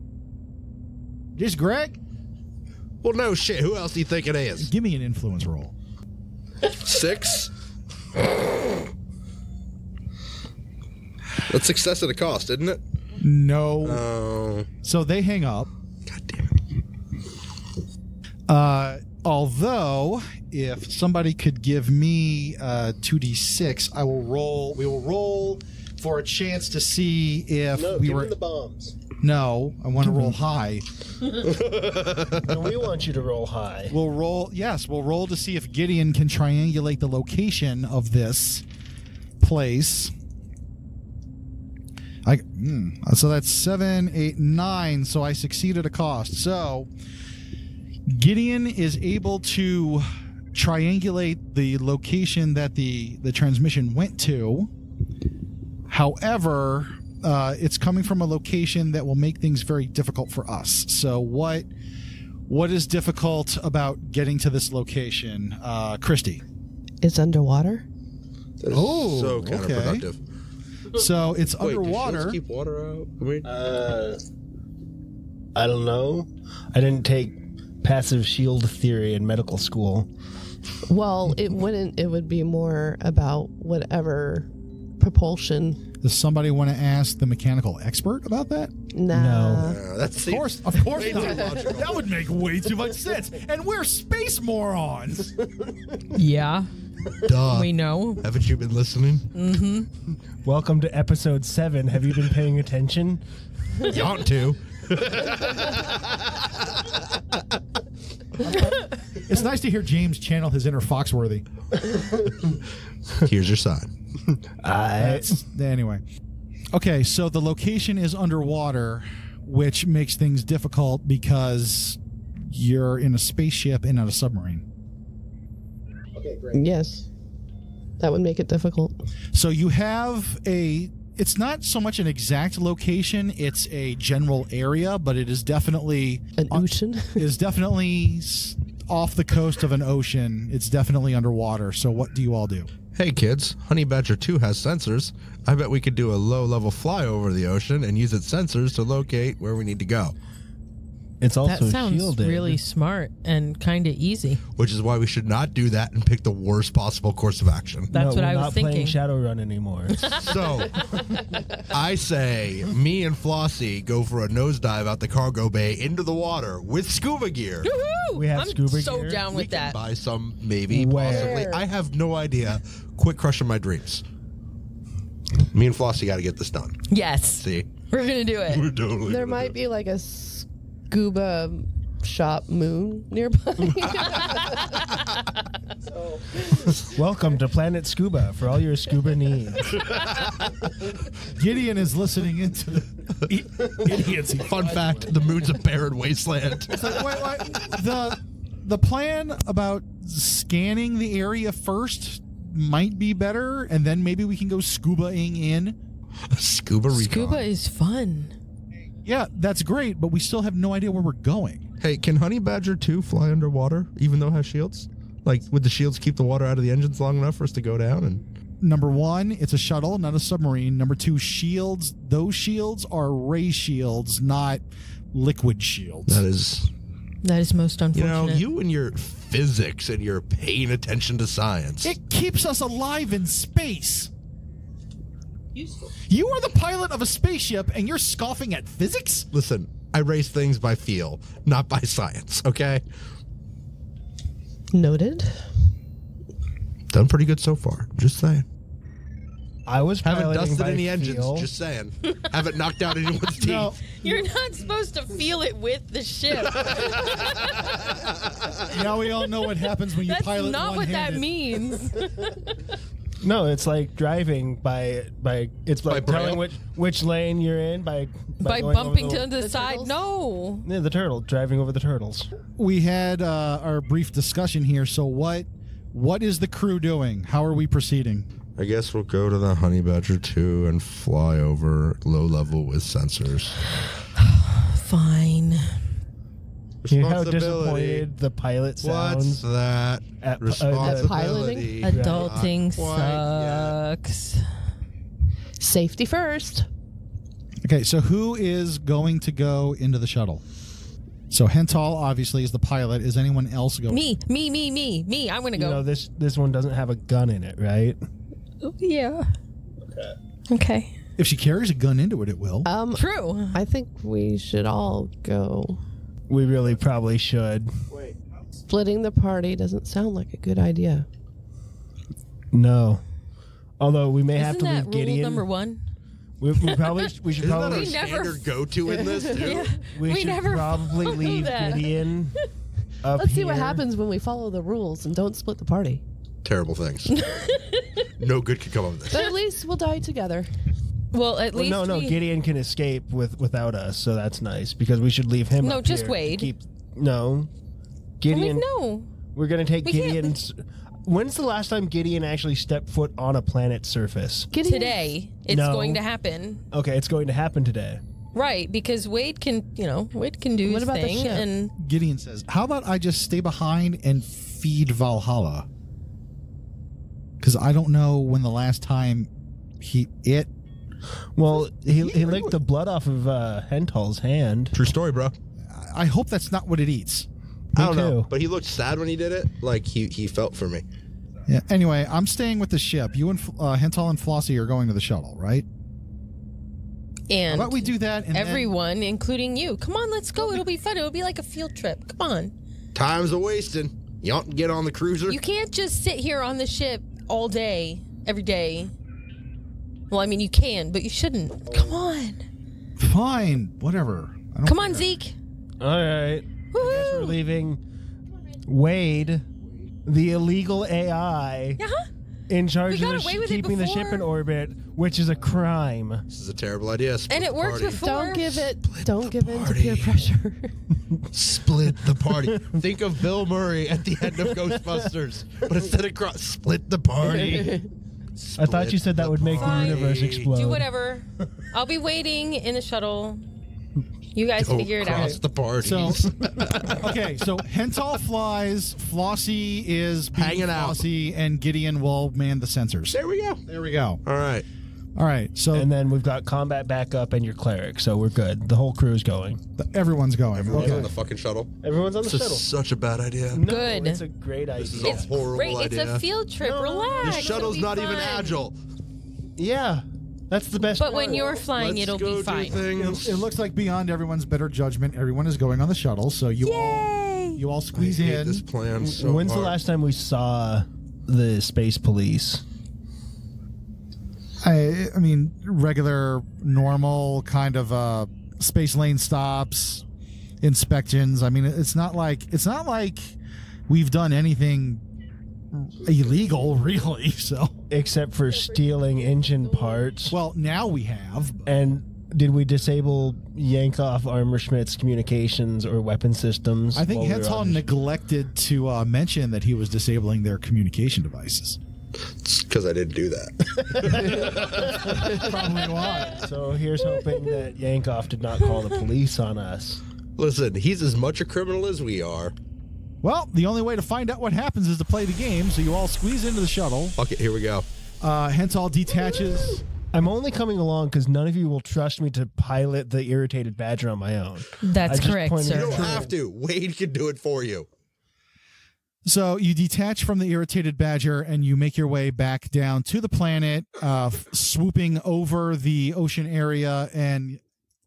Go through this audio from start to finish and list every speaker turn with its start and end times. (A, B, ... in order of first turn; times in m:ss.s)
0:01.4-0:02.0 A
0:03.0-0:04.7 B
0:04.6-0:05.7 A
0:06.7-0:07.5 B
0:11.4-0:12.8 B
0:13.2-0:14.0 A
0:13.8-0:14.7 B
0:14.8-0:15.7 A
0:16.1-0:16.6 B
0:18.5-0:28.3 A
0:27.7-0:29.0 C
0:29.2-0:30.9 A
0:31.4-0:32.6 B
0:32.3-0:33.9 C
0:33.9-0:38.6 A
0:39.4-0:40.1 A
0:42.2-0:46.9 A
0:48.1-0:54.7 A
0:55.9-1:01.7 A
1:02.5-1:06.4 A
1:07.0-1:07.8 D
1:08.6-1:10.2 B
1:08.7-1:10.0 A
1:10.9-1:12.4 A
1:11.6-1:13.5 B
1:13.4-1:14.2 C
1:15.5-1:20.1 C
1:20.9-1:25.8 D
1:26.0-1:28.7 A
1:28.9-1:29.8 D
1:29.1-1:29.6 C
1:29.6-1:32.0 B
1:30.2-1:35.5 A
1:31.1-1:31.5 D
1:36.1-1:36.7 E
1:37.2-1:39.3 B
1:37.4-1:38.2 E
1:39.3-1:39.9 E
1:40.4-1:43.2 C
1:43.8-1:46.9 B
1:48.4-1:51.4 A
1:53.2-1:53.9 B
1:54.6-1:55.3 C
1:55.0-1:56.0 A
1:56.7-2:04.6 A
2:06.5-2:07.1 D
2:08.0-2:09.0 D
2:09.3-2:22.7 A
2:16.4-2:17.2 D
2:22.9-2:30.1 B
2:31.2-2:32.6 C
2:31.4-2:34.4 E
2:34.6-2:37.9 B
2:37.9-2:39.0 E
2:37.9-2:40.1 C
2:39.9-2:40.6 E
2:40.2-2:40.8 B
2:41.7-2:47.7 B
2:47.6-2:49.8 E
2:48.1-2:49.3 C
2:49.3-2:54.0 B
2:50.7-2:51.4 C
2:51.0-2:51.6 D
2:55.4-2:57.7 B
2:56.9-2:58.6 E
2:58.5-2:59.5 B
2:59.0-3:04.8 D
3:06.8-3:09.8 C
3:11.2-3:14.5 A
3:13.9-3:17.0 B
3:16.7-3:25.8 A
3:26.3-3:27.4 B
3:26.9-3:28.3 E
3:29.0-3:31.6 A
3:31.8-3:38.2 B
3:38.6-3:46.2 A
3:46.1-3:46.7 B
3:47.2-3:48.4 E
3:47.9-3:51.9 B
3:51.8-3:54.1 A
3:56.1-3:59.3 A
3:59.3-4:02.8 B
4:04.7-4:05.5 D
4:06.9-4:08.4 B
4:09.6-4:11.5 C
4:10.0-4:13.7 B
4:13.4-4:13.8 A
4:13.9-4:17.8 E
4:16.6-4:18.6 B
4:18.7-4:21.3 A
4:20.0-4:22.6 E
4:23.2-4:29.3 C
4:25.9-4:26.4 B
4:28.4-4:30.7 E
4:29.3-4:30.0 D
4:30.6-4:32.3 C
4:32.6-4:38.2 A
4:38.6-4:43.6 B
4:44.1-4:45.8 E
4:46.8-4:48.0 B
4:46.9-4:49.4 C
4:48.8-4:53.8 B
4:50.2-4:52.5 C
4:50.8-4:51.8 D
4:51.8-4:54.6 E
4:55.6-4:56.7 D
4:57.6-5:00.4 A
5:01.3-5:04.0 A
5:03.9-5:05.8 E
5:05.5-5:08.0 C
5:08.6-5:09.3 E
5:09.9-5:10.1 C
5:10.5-5:10.9 E
5:11.2-5:12.7 A
5:12.6-5:15.8 D
5:12.9-5:13.6 E
5:16.3-5:18.1 C
5:18.7-5:21.0 D
5:22.5-5:23.0 C
5:23.8-5:25.4 C
5:24.4-5:25.8 E
5:26.4-5:28.0 C
5:26.6-5:28.6 E
5:27.4-5:29.8 B
5:28.8-5:29.8 D
5:29.3-5:32.1 E
5:29.8-5:32.4 C
5:33.0-5:33.8 C
5:33.1-5:36.0 D
5:36.4-5:37.1 B
5:37.1-5:38.0 E
5:38.2-5:39.3 B
5:39.1-5:40.5 D
5:41.1-5:42.2 E
5:41.5-5:47.5 C
5:45.6-5:46.5 E
5:48.2-5:48.6 C
5:48.3-5:49.1 E
5:49.3-5:54.5 C
5:49.8-5:50.4 E
5:54.5-5:55.0 D
5:54.6-5:56.6 E
5:55.5-5:56.0 C
5:56.7-5:58.0 C
5:58.3-6:01.7 E
6:00.6-6:01.5 D
6:01.8-6:05.7 A
6:07.4-6:10.5 A
6:11.4-6:14.7 C
6:11.7-6:12.6 A
6:14.7-6:15.3 B
6:15.6-6:17.3 A
6:17.8-6:18.3 C
6:17.8-6:20.8 B
6:21.5-6:25.6 A
6:27.3-6:32.5 E
6:27.5-6:28.7 A
6:32.9-6:35.4 B
6:35.3-6:38.9 E
6:40.1-6:42.4 E
6:43.0-6:45.1 A
6:44.6-6:45.4 E
6:45.8-6:47.8 C
6:46.7-6:47.4 E
6:48.6-6:49.4 C
6:50.0-6:51.8 C
6:51.8-6:52.1 E
6:52.5-6:56.2 C
6:52.9-6:54.3 E
6:56.3-6:58.0 B
6:57.3-6:58.7 E
6:58.0-7:00.8 D
6:58.8-7:00.2 B
7:01.3-7:07.8 B
7:07.2-7:07.9 D
7:07.2-7:07.6 C
7:08.4-7:10.5 B
7:08.6-7:10.9 C
7:09.6-7:13.4 E
7:14.3-7:15.4 E
7:14.6-7:17.0 B
7:15.0-7:16.3 A
7:16.9-7:24.2 A
7:20.3-7:21.0 B
7:23.1-7:23.6 B
7:24.2-7:24.6 B
7:25.2-7:25.9 A
7:25.7-7:29.6 C
7:29.8-7:31.1 A
7:30.5-7:33.6 B
7:30.7-7:31.1 C
7:31.8-7:32.7 C
7:33.5-7:35.3 C
7:33.6-7:34.2 E
7:34.8-7:36.2 B
7:35.0-7:38.6 E
7:36.6-7:37.7 C
7:37.2-7:38.8 B
7:39.6-7:41.6 C
7:41.0-7:42.8 E
7:41.7-7:43.4 B
7:42.9-7:48.6 A
7:46.6-7:47.6 E
7:47.9-7:49.8 B
7:49.0-7:52.6 C
7:54.6-8:00.0 A
8:00.6-8:03.4 A
8:03.9-8:05.0 A
8:05.7-8:07.8 A
8:07.9-8:10.4 C
8:10.3-8:11.7 A
8:11.7-8:17.8 C
8:16.9-8:21.8 A
8:22.4-8:25.4 B
8:23.9-8:25.1 C
8:25.1-8:26.5 A
8:26.4-8:30.0 C
8:30.4-8:32.5 B
8:33.2-8:37.2 A
8:37.2-8:37.8 B
8:38.2-8:39.8 A
8:40.1-8:46.3 C
8:44.8-8:46.1 E
8:45.7-8:47.9 B
8:45.8-8:46.3 A
8:49.2-8:57.6 A